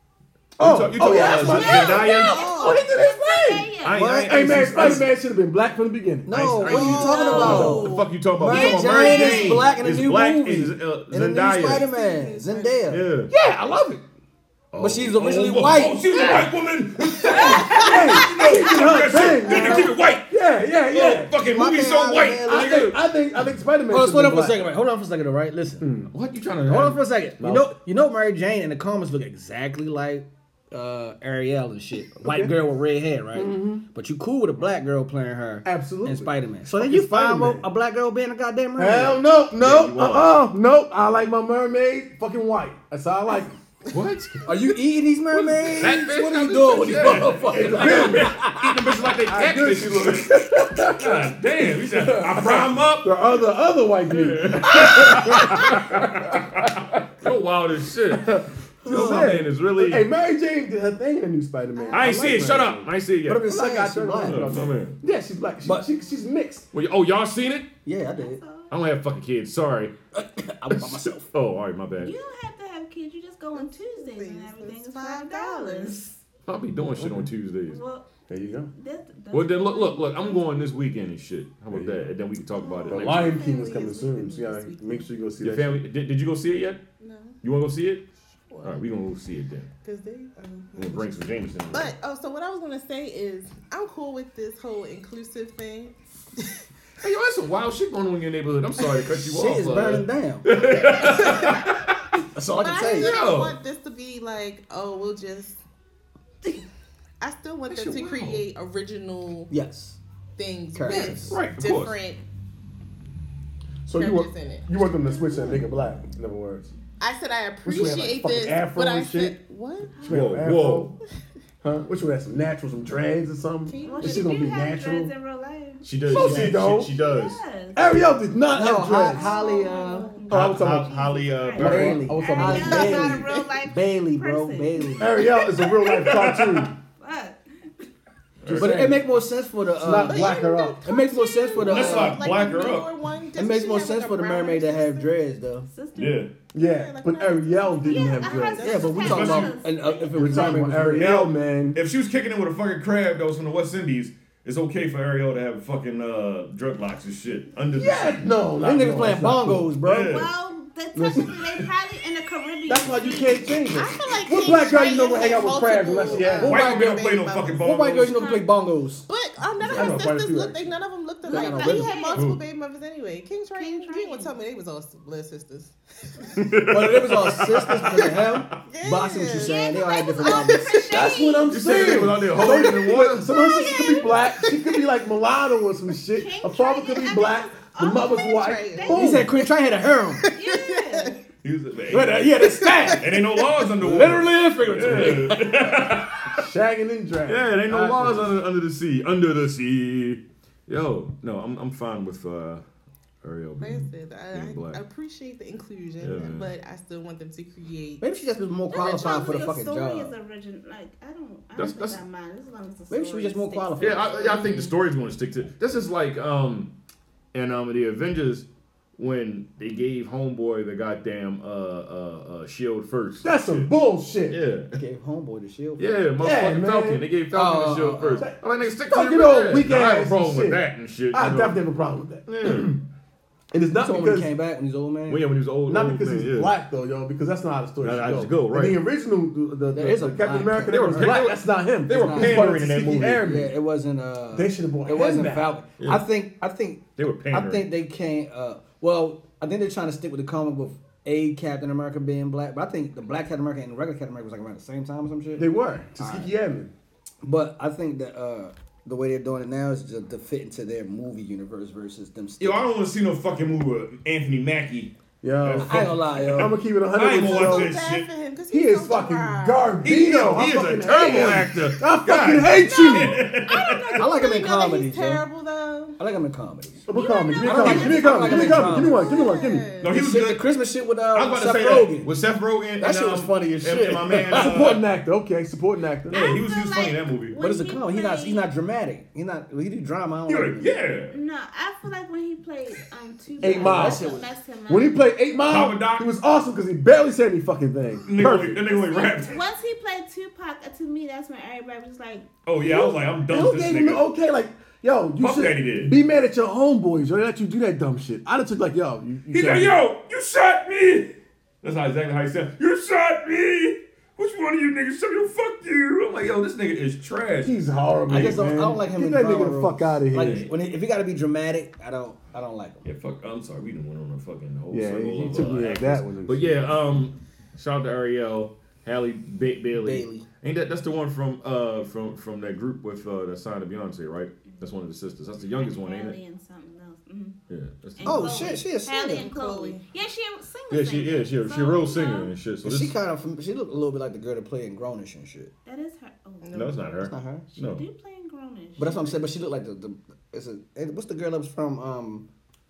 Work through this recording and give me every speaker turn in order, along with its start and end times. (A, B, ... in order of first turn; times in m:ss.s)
0:00.6-0:02.5 A
0:00.6-0:03.7 B
0:01.2-0:04.2 C
0:02.3-0:02.8 D
0:03.8-0:05.1 A
0:03.9-0:05.0 E
0:04.3-0:06.6 B
0:06.3-0:13.1 E
0:06.3-0:11.9 A
0:06.7-0:09.8 C
0:06.7-0:07.9 D
0:07.2-0:07.9 B
0:11.6-0:13.0 D
0:12.9-0:13.3 A
0:13.3-0:14.0 B
0:14.7-0:20.3 A
0:14.8-0:16.4 E
0:16.2-0:16.4 B
0:17.2-0:21.4 B
0:19.5-0:19.8 E
0:20.9-0:23.0 A
0:21.4-0:23.0 E
0:22.4-0:24.6 B
0:23.9-0:25.9 E
0:25.8-0:26.1 B
0:26.1-0:27.0 A
0:26.6-0:39.2 E
0:27.4-0:27.7 B
0:32.2-0:32.5 B
0:33.3-0:33.8 B
0:35.6-0:37.7 B
0:38.8-0:43.6 B
0:39.6-0:40.4 A
0:43.9-0:44.5 A
0:44.4-0:48.9 E
0:45.4-0:53.2 A
0:47.4-0:48.5 B
0:49.2-0:57.0 B
0:54.1-1:00.1 A
0:58.1-1:06.7 B
0:58.8-0:59.4 E
1:01.8-1:02.2 C
1:01.9-1:03.5 A
1:03.3-1:04.8 E
1:04.2-1:05.0 A
1:06.7-1:07.7 A
1:07.8-1:08.4 E
1:08.1-1:08.7 C
1:08.7-1:09.9 A
1:10.1-1:11.3 E
1:10.7-1:12.1 A
1:12.0-1:16.2 C
1:13.6-1:16.0 D
1:16.5-1:17.8 A
1:17.0-1:17.3 B
1:17.7-1:18.1 C
1:18.3-1:18.7 B
1:18.7-1:21.1 C
1:19.3-1:23.4 A
1:21.7-1:22.1 B
1:22.6-1:25.1 D
1:22.9-1:25.8 B
1:25.4-1:26.8 A
1:27.0-1:27.4 D
1:27.4-1:28.1 A
1:28.5-1:28.8 D
1:28.6-1:29.7 A
1:29.8-1:36.0 D
1:30.8-1:32.0 A
1:37.0-1:42.0 A
1:39.1-1:40.5 E
1:41.0-1:41.6 D
1:42.4-1:43.1 E
1:42.6-1:45.6 D
1:42.9-1:43.6 A
1:47.2-1:49.5 D
1:47.7-1:48.4 A
1:49.5-1:50.0 E
1:50.4-1:52.2 D
1:50.7-1:51.4 E
1:50.9-1:52.0 A
1:53.8-1:56.7 B
1:54.0-1:55.5 D
1:57.0-2:00.0 D
1:57.6-1:59.4 B
2:00.0-2:01.0 B
2:00.0-2:01.0 A
2:01.6-2:05.1 B
2:03.7-2:04.3 D
2:03.8-2:06.4 C
2:05.8-2:07.4 A
2:06.1-2:06.9 B
2:06.2-2:06.6 E
2:07.0-2:08.0 C
2:07.8-2:09.4 B
2:08.5-2:10.2 E
2:09.1-2:15.1 C
2:09.2-2:10.2 D
2:10.3-2:10.9 B
2:10.3-2:12.0 A
2:11.6-2:13.2 B
2:11.6-2:15.2 E
2:12.5-2:13.5 D
2:15.0-2:16.8 B
2:15.8-2:16.7 A
2:17.0-2:17.4 C
2:18.4-2:19.0 A
2:18.5-2:19.2 B
2:18.5-2:22.3 E
2:19.8-2:20.8 B
2:20.0-2:25.2 D
2:21.6-2:22.9 A
2:23.4-2:25.7 E
2:25.7-2:26.3 C
2:26.0-2:26.3 A
2:26.5-2:28.8 B
2:26.6-2:29.4 D
2:27.8-2:30.8 C
2:28.6-2:31.2 E
2:29.1-2:29.5 A
2:30.2-2:31.8 B
2:30.9-2:38.3 A
2:37.7-2:39.7 B
2:38.6-2:40.2 E
2:39.8-2:40.3 A
2:40.1-2:45.5 C
2:40.9-2:41.6 B
2:42.7-2:46.7 B
2:43.7-2:47.6 D
2:46.4-2:48.4 A
2:47.6-2:49.1 E
2:49.1-2:56.4 D
2:49.7-2:50.8 B
2:51.2-2:52.1 E
2:51.2-2:52.2 C
2:52.1-2:52.4 A
2:53.6-2:54.4 C
2:56.4-2:58.4 A
2:56.7-3:00.8 E
2:58.5-2:59.6 D
2:59.4-3:02.0 C
3:00.2-3:00.8 D
3:00.9-3:09.3 B
3:01.5-3:03.3 A
3:03.6-3:04.1 C
3:06.2-3:09.2 C
3:07.8-3:09.1 D
3:08.9-3:10.2 E
3:10.2-3:11.2 D
3:10.3-3:11.2 C
3:11.4-3:12.4 A
3:11.9-3:16.0 E
3:12.4-3:13.0 D
3:12.9-3:16.4 A
3:14.8-3:15.3 B
3:16.4-3:18.3 B
3:17.3-3:22.6 A
3:23.2-3:24.8 A
3:23.6-3:28.0 D
3:26.0-3:26.5 A
3:28.0-3:30.2 E
3:28.7-3:34.7 C
3:31.6-3:32.0 A
3:32.9-3:34.2 E
3:33.8-3:36.7 A
3:37.3-3:43.7 A
3:43.2-3:44.4 B
3:44.3-3:44.8 A
3:44.7-3:46.0 E
3:45.8-3:51.6 A
3:46.2-3:47.1 B
3:47.3-3:48.3 E
3:48.2-3:52.8 B
3:52.3-3:52.8 A
3:53.5-3:54.3 B
3:53.8-3:55.4 E
3:55.1-3:56.6 A
3:55.7-4:03.5 B
3:57.8-3:58.8 A
3:59.7-4:01.3 E
4:00.6-4:03.4 A
4:01.9-4:16.3 E
4:04.3-4:05.6 B
4:05.8-4:06.1 A
4:07.0-4:07.7 A
4:15.4-4:16.7 B
4:17.2-4:22.7 E
4:22.4-4:28.1 A
4:25.2-4:27.7 B
4:25.6-4:26.6 E
4:27.2-4:29.8 D
4:28.5-4:33.2 B
4:29.8-4:34.1 A
4:32.6-4:36.0 D
4:34.0-4:35.2 E
4:36.0-4:36.8 E
4:36.9-4:39.7 B
4:36.9-4:38.7 C
4:37.0-4:39.9 D
4:37.4-4:39.1 E
4:39.8-4:40.5 A
4:39.9-4:42.1 E
4:41.1-4:44.8 A
4:42.8-4:44.7 E
4:44.2-4:46.2 B
4:46.1-4:47.4 A
4:46.1-4:48.5 C
4:47.4-4:50.8 E
4:50.3-4:51.2 A
4:51.1-4:55.1 C
4:53.4-4:58.6 B
4:53.4-4:54.3 E
4:55.5-4:56.1 A
4:58.1-4:59.4 A
4:58.7-5:02.3 C
5:02.4-5:04.0 A
5:02.6-5:09.8 B
5:05.2-5:06.0 A
5:09.3-5:17.6 A
5:17.4-5:20.5 B
5:18.1-5:18.4 A
5:18.1-5:22.9 E
5:20.2-5:20.5 A
5:22.8-5:36.2 A
5:24.7-5:26.8 B
5:29.8-5:30.3 E
5:34.4-5:34.8 C
5:35.6-5:37.4 C
5:37.5-5:38.6 A
5:38.0-5:42.3 C
5:38.0-5:39.3 E
5:39.2-5:39.8 D
5:40.7-5:43.0 A
5:42.6-5:45.5 E
5:45.6-5:46.7 C
5:46.4-5:46.8 D
5:46.5-5:47.8 A
5:47.0-5:47.5 E
5:47.6-5:49.3 C
5:48.8-5:52.3 E